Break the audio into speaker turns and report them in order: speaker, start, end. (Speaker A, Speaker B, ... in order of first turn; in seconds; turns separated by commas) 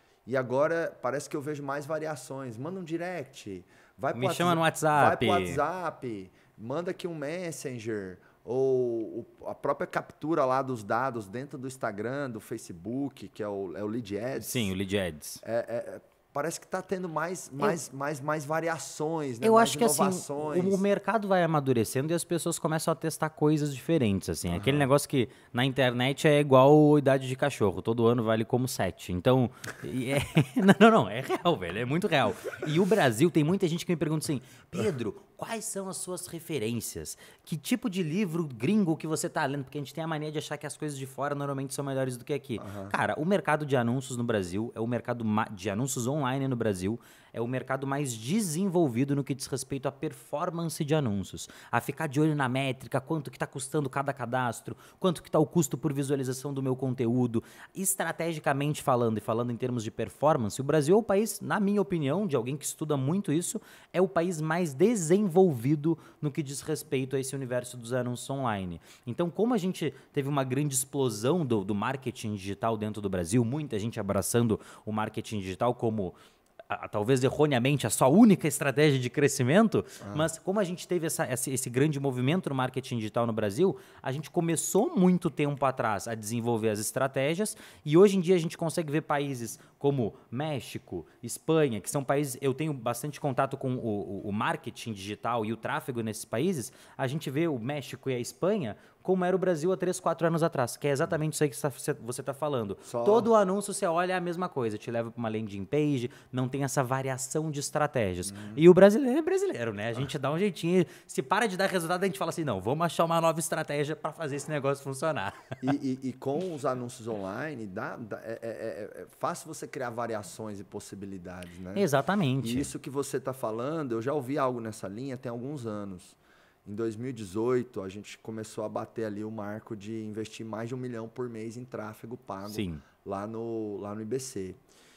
Speaker A: 0.2-14.7, Speaker B: 4.1-5.6, Speaker B: 14.4-15.4, Speaker A: 15.4-20.8, Speaker B: 19.4-76.1, Speaker A: 24.5-24.9, Speaker A: 42.6-43.0, Speaker B: 76.7-115.5, Speaker A: 80.0-80.3, Speaker A: 102.9-103.3, Speaker A: 108.2-108.6, Speaker A: 115.6-121.9, Speaker B: 121.7-122.7, Speaker A: 122.4-134.6, Speaker B: 132.5-132.8